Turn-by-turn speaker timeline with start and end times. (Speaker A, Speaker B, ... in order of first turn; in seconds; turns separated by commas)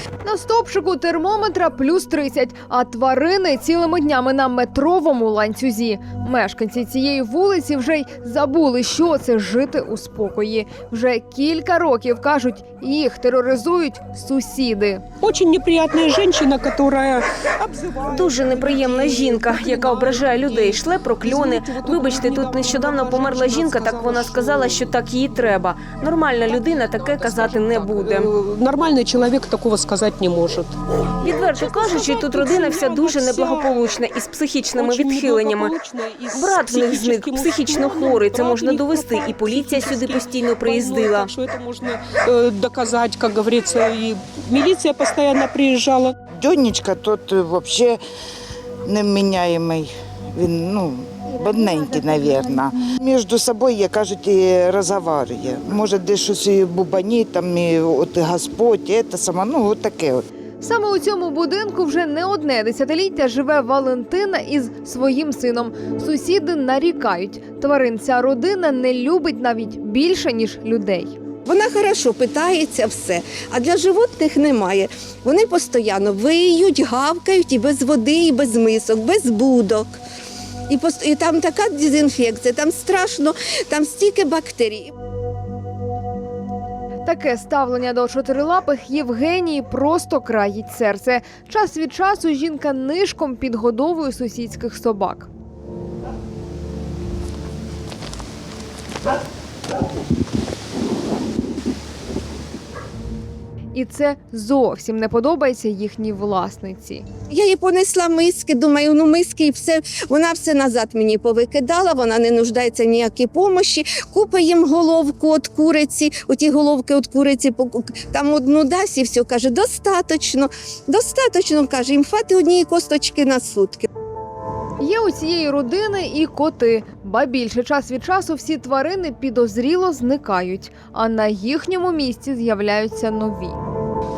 Speaker A: 0.2-15.0, Speaker B: 15.2-24.9, Speaker C: 18.2-28.3, Speaker B: 26.6-30.8, Speaker C: 31.2-35.7, Speaker B: 31.5-34.0, Speaker B: 34.8-46.1, Speaker C: 36.3-41.3, Speaker D: 46.4-48.0, Speaker D: 48.9-60.2, Speaker A: 60.6-71.2, Speaker E: 71.5-80.0, Speaker E: 80.7-84.9, Speaker A: 87.0-95.3, Speaker A: 103.7-107.1, Speaker E: 107.3-123.9, Speaker A: 124.8-133.6